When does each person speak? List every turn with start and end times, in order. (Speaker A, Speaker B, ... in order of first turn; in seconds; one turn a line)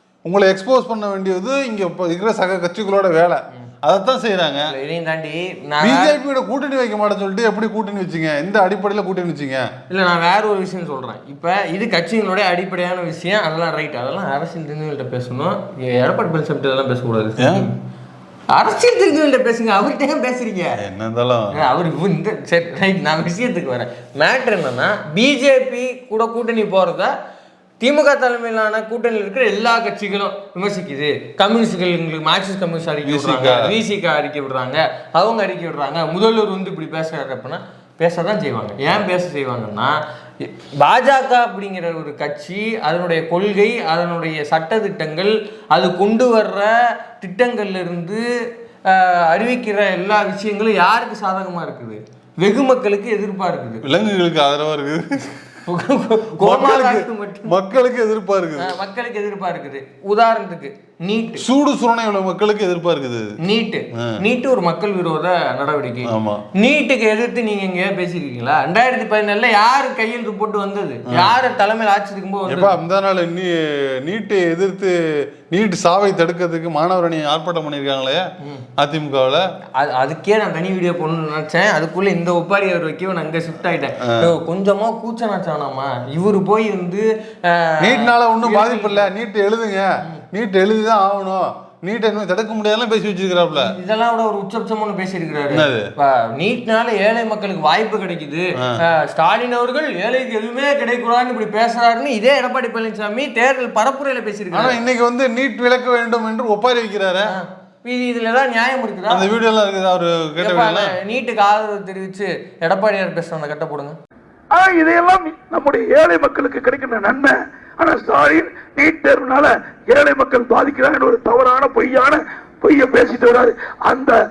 Speaker A: 0.2-4.7
Speaker B: 4.7-6.1
Speaker A: 5.8-9.7
Speaker B: 9.9-17.8
Speaker A: 17.4-17.7
Speaker B: 18.5-20.8
Speaker A: 20.8-21.6
Speaker B: 21.5-27.1
Speaker B: 27.8-48.3
Speaker A: 33.0-33.7
Speaker B: 48.9-53.8
Speaker A: 53.8-55.3
Speaker B: 55.6-57.5
Speaker A: 56.4-58.8
Speaker B: 58.6-61.4
Speaker A: 61.4-63.4
Speaker B: 63.4-72.8
Speaker A: 66.1-66.4
Speaker A: 71.1-71.4
Speaker A: 72.5-75.0
Speaker A: 75.5-78.2
Speaker A: 78.8-79.4
Speaker B: 79.8-89.1
Speaker A: 84.0-84.3
Speaker A: 87.8-93.7
Speaker B: 93.5-104.8
Speaker A: 95.5-95.9
Speaker A: 104.5-107.3
Speaker B: 107.3-109.3
Speaker A: 109.1-110.9
Speaker B: 110.4-114.0
Speaker C: 114.5-124.1